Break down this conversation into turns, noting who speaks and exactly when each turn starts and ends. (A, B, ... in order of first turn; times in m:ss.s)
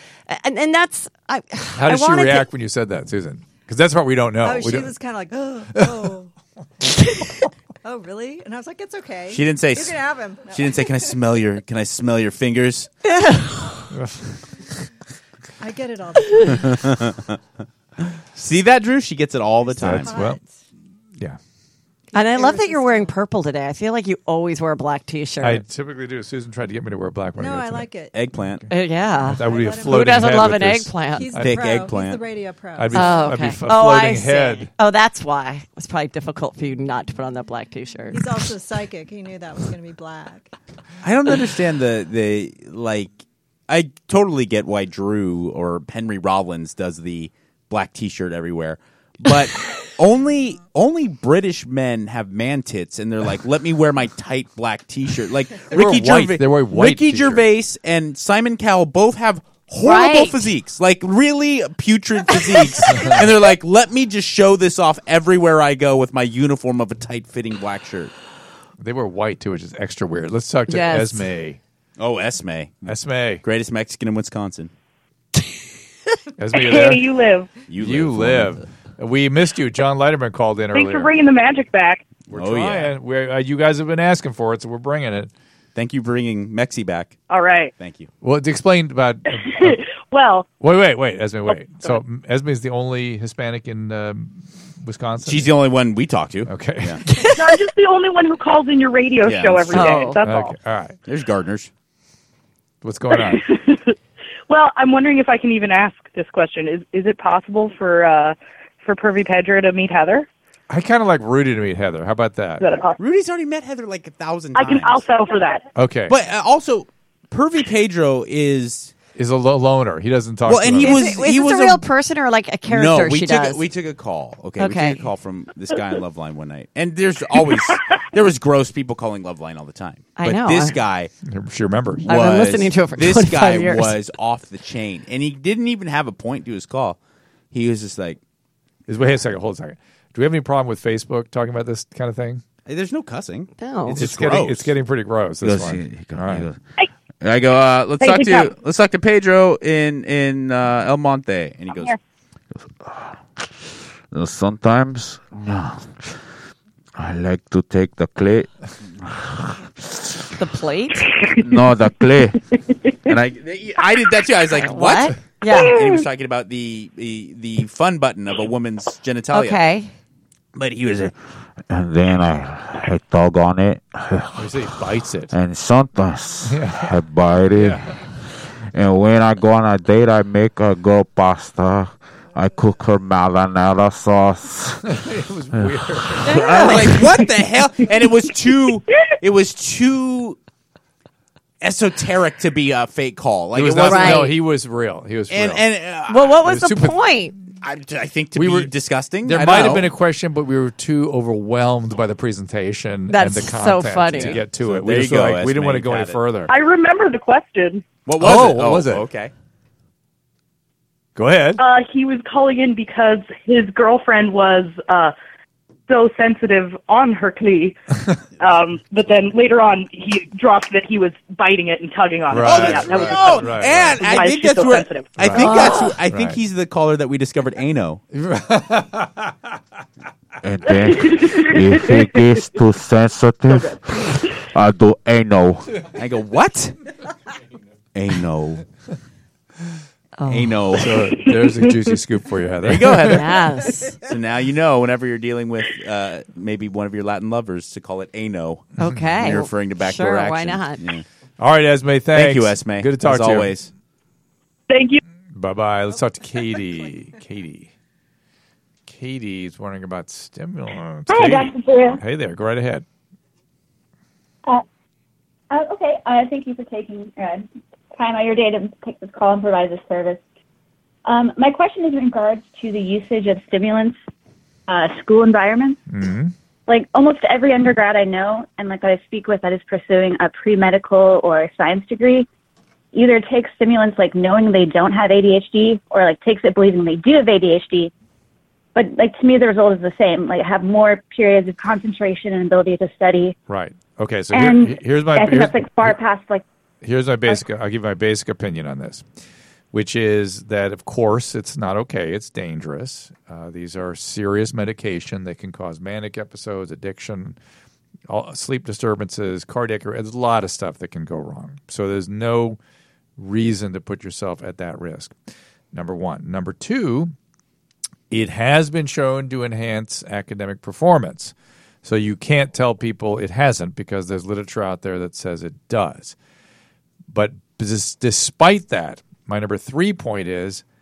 0:00.3-0:02.5 A
0:01.8-0:05.0 B
0:04.4-0:06.3 C
0:05.8-0:06.1 B
0:07.8-0:11.1 C
0:09.3-0:10.0 D
0:10.5-0:12.9 D
0:13.9-0:14.4 B
0:15.6-0:16.8 C
0:16.6-0:17.2 D
0:18.4-0:20.1 D
0:19.7-0:20.6 C
0:19.8-0:20.4 B
0:22.1-0:23.1 C
0:22.1-0:25.6 A
0:25.4-0:27.9 B
0:27.4-0:28.2 C
0:28.1-0:28.6 D
0:28.7-0:31.3 A
0:29.3-0:31.7 B
0:29.4-0:30.6 C
0:31.1-0:33.5 C
0:31.4-0:32.2 D
0:32.8-0:34.7 B
0:32.9-0:38.3 A
0:38.1-0:40.5 C
0:41.0-0:43.1 D
0:43.7-1:08.1 D
0:55.7-0:57.4 B
0:59.8-1:00.5 A
1:02.4-1:03.1 A
1:08.8-1:11.6 B
1:10.7-1:11.3 A
1:12.0-1:14.7 D
1:12.9-1:13.4 B
1:16.4-1:17.0 B
1:16.5-1:17.6 E
1:17.7-1:18.6 D
1:17.8-1:21.1 B
1:20.7-1:22.0 E
1:22.3-1:22.9 D
1:22.3-1:25.3 B
1:25.8-1:27.2 D
1:27.3-1:27.7 E
1:27.8-1:28.1 D
1:28.2-1:29.8 B
1:29.6-1:30.5 E
1:30.6-1:35.5 B
1:35.2-1:37.0 D
1:36.5-1:37.0 B
1:37.4-1:40.6 E
1:39.2-1:40.1 D
1:39.7-1:40.2 A
1:40.2-1:41.0 B
1:41.1-1:41.7 D
1:42.8-1:43.5 B
1:43.2-1:43.9 E
1:44.5-1:50.3 E
1:50.7-1:52.6 B
1:52.6-1:53.0 E
1:53.0-1:55.0 D
1:54.6-1:55.7 E
1:55.8-1:56.2 B
1:56.1-1:58.9 D
1:59.2-2:01.0 B
2:00.5-2:01.8 D
2:00.8-2:03.6 A
2:02.7-2:11.1 D
2:04.6-2:05.0 A
2:10.2-2:10.8 A
2:11.3-2:12.1 B
2:12.1-2:14.0 A
2:12.1-2:17.0 D
2:17.5-2:18.2 D
2:18.9-2:22.4 B
2:22.7-2:24.7 D
2:23.6-2:24.0 A
2:24.0-2:26.5 B
2:25.4-2:26.6 F
2:27.2-2:31.9 D
2:28.0-2:28.5 E
2:32.6-2:33.4 F
2:34.1-2:36.1 F
2:37.0-2:38.5 F
2:39.0-2:40.0 F
2:40.4-2:41.1 A
2:41.4-2:42.4 F
2:43.1-2:49.6 D
2:44.6-2:45.8 A
2:49.3-2:49.9 A
2:50.6-2:51.1 D
2:51.7-2:54.5 F
2:54.4-2:55.3 B
2:55.3-2:57.8 F
2:56.5-2:56.9 B
2:57.5-2:57.9 B
2:58.7-3:04.8 F
3:04.8-3:07.0 B
3:06.3-3:06.9 A
3:06.3-3:10.4 D
3:11.6-3:14.3 D
3:13.6-3:15.6 B
3:13.9-3:14.3 A
3:15.3-3:16.4 D
3:16.1-3:17.3 A
3:16.4-3:17.0 B
3:17.6-3:19.9 D
3:18.4-3:18.7 B
3:19.2-3:26.5 B
3:23.1-3:24.4 A
3:24.2-3:26.2 D
3:26.5-3:27.9 E
3:28.1-3:29.3 D
3:28.2-3:29.0 B
3:31.2-3:31.6 B
3:31.6-3:35.1 E
3:35.9-3:37.8 E
3:38.4-3:45.2 E
3:42.3-3:44.0 B
3:42.3-3:48.0 D
3:45.2-3:46.4 B
3:45.4-3:46.0 A
3:48.1-3:49.4 B
3:50.4-3:55.7 F
3:50.7-3:52.5 E
3:53.5-3:53.8 E
3:56.0-3:56.8 D
3:57.9-3:58.6 D
4:00.2-4:00.6 A
4:00.3-4:01.0 D
4:00.8-4:03.2 B
4:01.1-4:01.5 E
4:02.6-4:03.3 D
4:03.0-4:04.0 A
4:04.0-4:11.0 D
4:08.8-4:10.8 A
4:11.4-4:13.5 B
4:12.1-4:13.7 D
4:14.7-4:15.0 E
4:15.4-4:17.7 B
4:18.9-4:22.8 B
4:21.1-4:22.0 G
4:25.5-4:30.2 G
4:31.0-4:34.0 G
4:34.7-4:35.8 G
4:35.9-4:36.3 B
4:36.7-4:42.3 G
4:42.9-4:47.9 G
4:48.8-4:53.4 G
4:53.5-4:56.0 B
4:54.3-4:56.4 G
4:56.8-4:59.1 B
4:59.7-5:07.4 B
5:08.1-5:12.6 B
5:13.2-5:15.2 B
5:15.7-5:17.1 B
5:18.1-5:26.2 B
5:27.1-5:30.6 B